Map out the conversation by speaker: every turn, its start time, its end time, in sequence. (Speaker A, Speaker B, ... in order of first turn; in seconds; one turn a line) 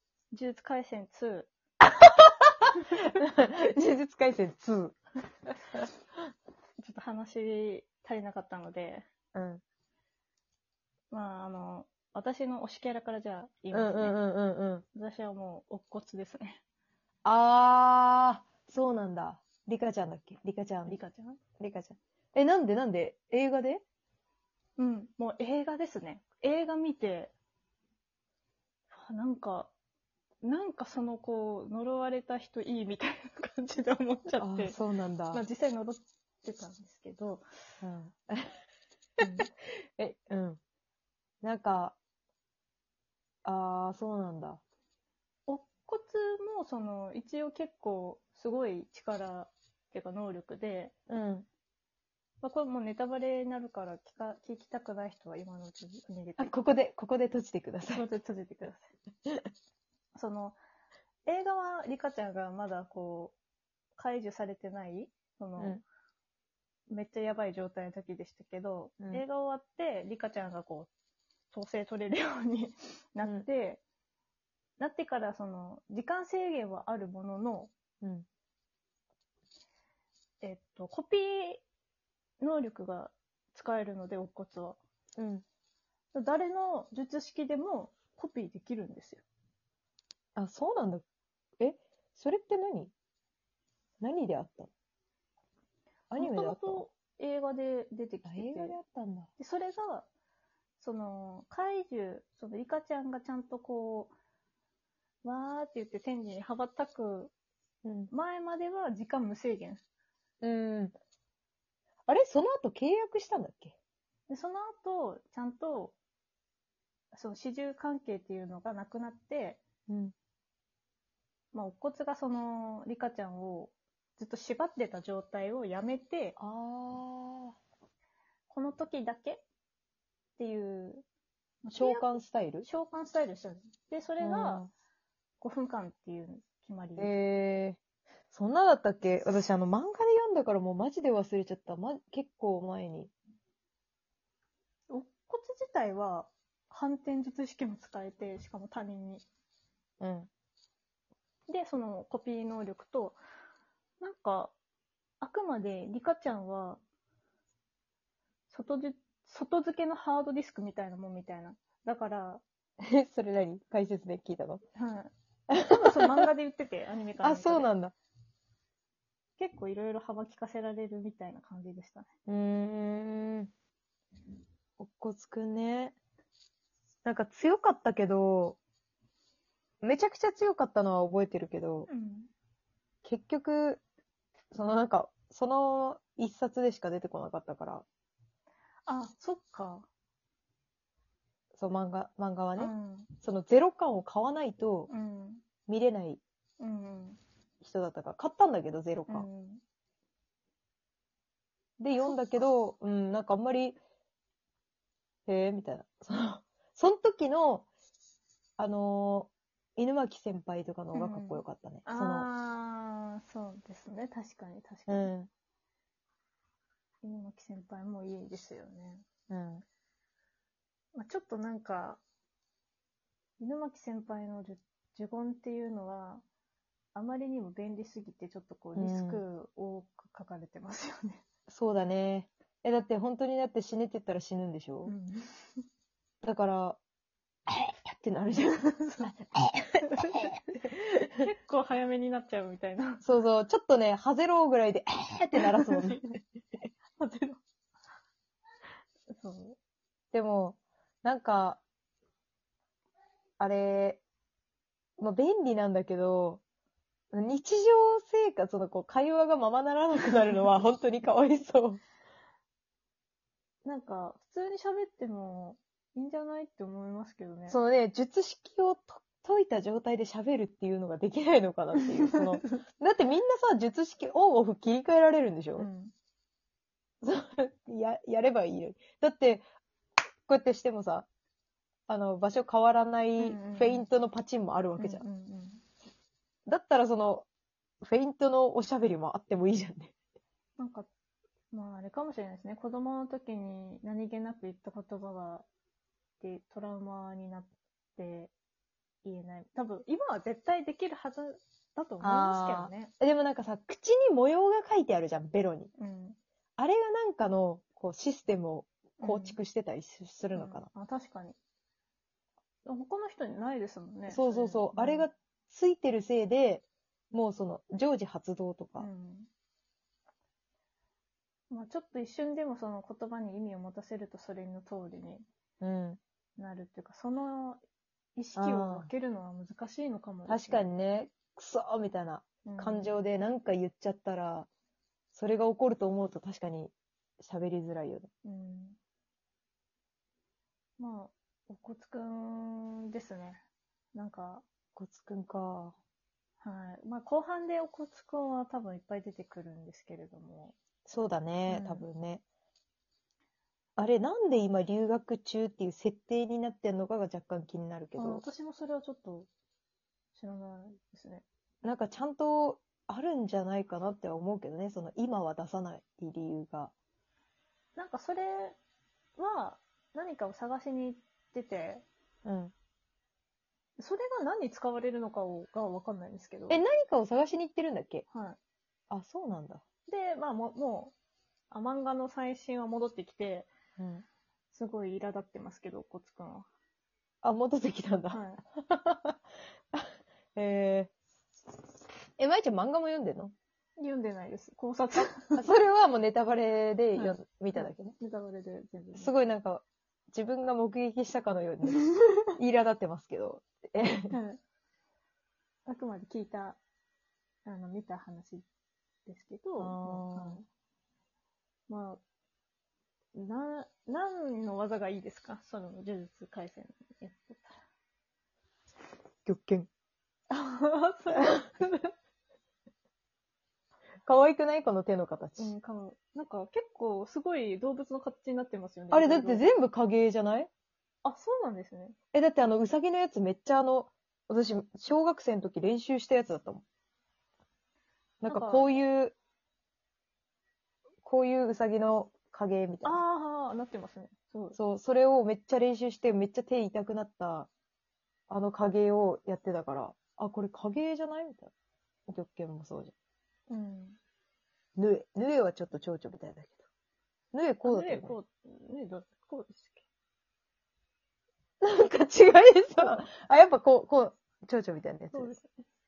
Speaker A: 0.3-1.5
Speaker B: 1.9-5.0
Speaker A: 6.8-9.0
Speaker B: 9.3-9.6
Speaker A: 11.1-14.2
Speaker B: 13.7-14.8
Speaker A: 14.9-16.6
Speaker B: 17.2-21.0
Speaker A: 20.9-21.4
Speaker B: 21.6-23.8
Speaker A: 24.8-27.3
Speaker A: 28.9-29.7
Speaker A: 30.4-34.8
Speaker B: 34.4-35.4
Speaker A: 35.3-37.4
Speaker B: 37.8-38.6
Speaker A: 39.2-39.5
Speaker B: 40.0-40.6
Speaker B: 41.4-42.0
Speaker B: 43.4-44.6
Speaker A: 45.5-50.9
Speaker B: 51.1-51.5
Speaker A: 52.4-56.5
Speaker B: 56.4-58.0
Speaker A: 57.9-58.9
Speaker A: 60.1-60.6
Speaker A: 61.2-63.3
Speaker A: 64.0-65.8
Speaker A: 66.9-70.9
Speaker A: 71.5-73.8
Speaker B: 73.2-73.5
Speaker A: 74.8-77.7
Speaker A: 80.4-81.6
Speaker A: 82.4-84.8
Speaker B: 85.2-85.4
Speaker A: 86.1-89.2
Speaker B: 90.3-91.0
Speaker B: 91.6-92.9
Speaker B: 94.0-94.7
Speaker B: 96.1-96.8
Speaker A: 96.2-98.8
Speaker B: 98.2-99.3
Speaker A: 99.4-100.1
Speaker A: 100.8-104.1
Speaker A: 105.2-107.3
Speaker B: 107.8-108.1
Speaker A: 108.1-109.8
Speaker B: 110.4-110.9
Speaker B: 112.1-113.8
Speaker A: 114.3-116.0
Speaker A: 117.1-119.6
Speaker B: 119.9-120.1
Speaker A: 121.5-126.3
Speaker B: 126.4-127.6
Speaker A: 128.5-129.4
Speaker A: 130.4-131.0
Speaker A: 131.6-134.6
Speaker B: 131.7-132.7
Speaker B: 134.2-134.7
Speaker A: 135.4-137.1
Speaker B: 137.0-137.8
Speaker B: 138.3-143.1
Speaker A: 144.9-149.2
Speaker B: 150.0-150.3
Speaker A: 151.5-153.2
Speaker A: 154.0-154.5
Speaker A: 155.2-156.8
Speaker A: 158.5-162.4
Speaker B: 162.8-164.6
Speaker A: 164.8-167.7
Speaker B: 165.5-166.2
Speaker B: 167.2-167.9
Speaker A: 169.4-172.1
Speaker B: 172.3-173.5
Speaker B: 174.8-175.9
Speaker B: 177.0-178.6
Speaker B: 179.8-181.9
Speaker A: 181.9-182.3
Speaker B: 183.0-183.8
Speaker B: 184.5-187.8
Speaker A: 188.8-189.9
Speaker B: 191.6-194.9
Speaker A: 192.6-193.1
Speaker A: 194.9-195.4
Speaker B: 195.7-196.2
Speaker A: 196.6-197.2
Speaker B: 197.6-199.2
Speaker A: 199.1-199.6
Speaker B: 201.8-203.8
Speaker B: 205.3-207.7
Speaker B: 208.6-212.3
Speaker A: 210.9-215.1
Speaker B: 214.9-215.3
Speaker A: 217.0-219.0
Speaker B: 219.3-219.6
Speaker A: 220.9-222.0
Speaker A: 223.4-226.2
Speaker A: 226.9-231.2
Speaker B: 228.7-229.2
Speaker B: 231.5-234.9
Speaker A: 234.8-235.6
Speaker B: 236.2-236.8
Speaker B: 237.6-241.2
Speaker A: 238.6-239.2
Speaker A: 239.8-240.7
Speaker A: 241.2-243.0
Speaker B: 243.0-246.1
Speaker A: 245.4-246.2
Speaker A: 247.0-247.4
Speaker A: 249.1-249.6
Speaker B: 250.1-251.6
Speaker B: 253.4-254.0
Speaker B: 255.0-256.4
Speaker B: 257.1-261.8
Speaker A: 263.6-267.6
Speaker B: 267.5-275.7
Speaker A: 275.6-275.9
Speaker B: 277.0-279.4
Speaker B: 280.3-281.1
Speaker B: 281.9-285.1
Speaker A: 283.2-283.9
Speaker A: 284.8-285.6
Speaker B: 286.4-287.3
Speaker B: 287.8-289.9
Speaker A: 290.6-290.9
Speaker A: 291.5-295.4
Speaker A: 296.2-298.3
Speaker A: 299.0-302.9
Speaker B: 302.0-305.7
Speaker A: 305.8-306.2
Speaker B: 306.6-310.7
Speaker A: 309.0-309.4
Speaker A: 310.3-311.4
Speaker A: 312.6-315.1
Speaker B: 314.1-318.9
Speaker A: 318.8-319.3
Speaker A: 321.5-325.2
Speaker B: 325.6-326.0
Speaker A: 326.4-327.6
Speaker A: 328.2-330.7
Speaker B: 328.4-328.9
Speaker B: 330.2-334.5
Speaker A: 332.4-332.9
Speaker B: 335.1-338.1
Speaker A: 338.2-338.8
Speaker A: 340.8-343.4
Speaker A: 343.9-344.4
Speaker B: 344.8-345.7
Speaker A: 346.4-350.5
Speaker B: 350.9-352.2
Speaker A: 351.5-351.8
Speaker B: 353.8-358.2
Speaker A: 358.0-359.3
Speaker A: 360.1-361.2
Speaker B: 361.6-366.7
Speaker A: 367.8-368.6
Speaker A: 369.2-371.8
Speaker B: 372.2-372.5
Speaker A: 373.8-376.6
Speaker B: 376.5-378.0
Speaker A: 378.1-378.4
Speaker B: 378.9-379.6
Speaker A: 379.9-380.9
Speaker A: 381.5-383.5
Speaker B: 383.8-384.0
Speaker A: 384.5-386.5
Speaker B: 387.2-389.2
Speaker A: 388.1-388.4
Speaker B: 389.7-390.9
Speaker B: 392.2-393.3
Speaker A: 393.8-395.4
Speaker B: 395.3-397.9
Speaker A: 396.9-399.1
Speaker B: 398.9-401.8
Speaker B: 402.3-404.2
Speaker A: 404.1-404.4
Speaker A: 405.7-406.6
Speaker A: 407.4-408.4
Speaker A: 409.1-410.4
Speaker B: 409.6-410.4
Speaker A: 411.7-412.0
Speaker A: 413.1-417.6
Speaker B: 419.2-419.7
Speaker A: 420.3-421.9
Speaker B: 424.1-425.5
Speaker A: 425.4-429.5
Speaker B: 428.9-430.5
Speaker A: 431.0-431.9
Speaker B: 432.1-436.6
Speaker B: 438.2-439.1
Speaker A: 438.3-438.7
Speaker B: 441.0-443.0
Speaker A: 442.8-444.6
Speaker B: 444.5-447.5
Speaker B: 448.3-451.5
Speaker B: 452.1-452.9
Speaker A: 453.5-454.0
Speaker B: 454.8-456.6
Speaker B: 457.3-458.2
Speaker A: 457.6-459.8
Speaker B: 461.6-465.3
Speaker A: 465.1-465.6